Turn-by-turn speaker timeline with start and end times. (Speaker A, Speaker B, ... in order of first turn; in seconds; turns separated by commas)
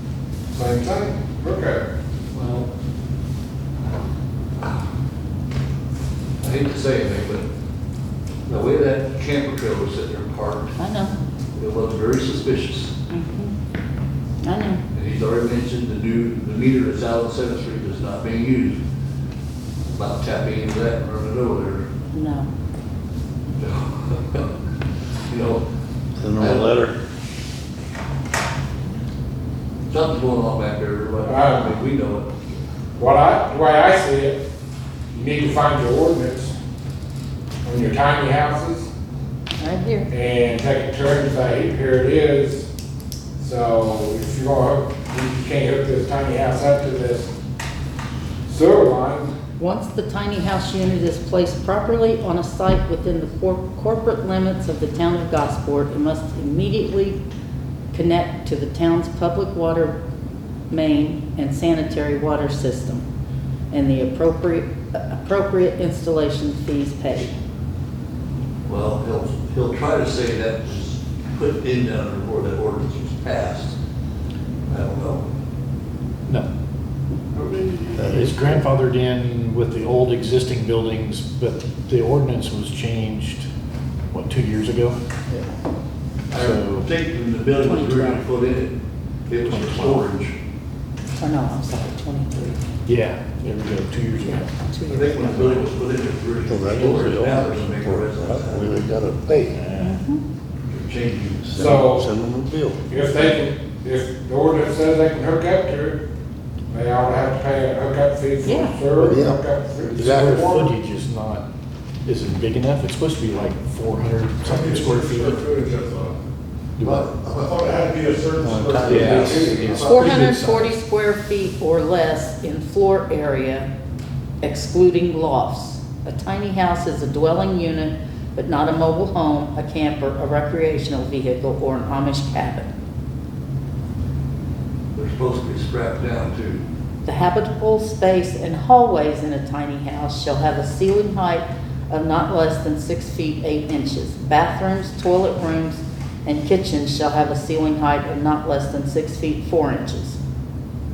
Speaker A: 0.5-1.9, Speaker B: 2.3-2.7, Speaker B: 6.4-7.5, Speaker B: 8.5-10.7, Speaker C: 10.8-11.2, Speaker B: 11.6-12.9, Speaker C: 13.1-13.5, Speaker C: 14.4-14.8, Speaker B: 14.9-18.8, Speaker B: 19.9-21.9, Speaker C: 22.1-22.5, Speaker B: 23.6-24.5, Speaker B: 25.3-25.6, Speaker D: 26.2-27.0, Speaker B: 26.4-26.8, Speaker B: 29.9-32.3, Speaker A: 31.2-31.7, Speaker A: 33.0-34.4, Speaker A: 35.1-36.5, Speaker A: 37.6-38.9, Speaker C: 39.6-40.1, Speaker A: 40.1-42.7, Speaker A: 43.4-47.3, Speaker A: 48.4-49.4, Speaker C: 49.6-57.2, Speaker C: 57.9-60.0, Speaker C: 60.7-63.0, Speaker C: 63.7-67.3, Speaker B: 68.6-73.8, Speaker B: 74.7-75.2, Speaker E: 77.3-83.5, Speaker D: 77.9-78.6, Speaker E: 84.1-85.0, Speaker B: 86.3-88.7, Speaker E: 86.3-86.9, Speaker C: 87.6-88.2, Speaker B: 89.3-90.3, Speaker E: 89.4-90.0, Speaker C: 91.2-92.6, Speaker E: 92.8-94.5, Speaker C: 94.2-95.7, Speaker B: 94.9-98.7, Speaker D: 96.5-99.6, Speaker E: 99.5-100.0, Speaker C: 99.8-100.2, Speaker B: 100.7-101.7, Speaker D: 101.5-102.8, Speaker A: 101.6-102.1, Speaker A: 102.9-106.0, Speaker A: 106.7-110.7, Speaker C: 108.4-108.8, Speaker E: 109.0-109.3, Speaker D: 109.0-109.4, Speaker D: 109.9-110.5, Speaker E: 109.9-111.5, Speaker E: 112.0-115.4, Speaker F: 114.9-116.1, Speaker E: 116.8-117.1, Speaker B: 116.8-117.6, Speaker F: 117.7-119.5, Speaker D: 118.4-119.7, Speaker E: 118.8-120.8, Speaker B: 119.0-120.2, Speaker A: 119.1-119.4, Speaker C: 119.8-123.7, Speaker C: 124.4-132.7, Speaker B: 134.9-136.6, Speaker C: 137.0-150.2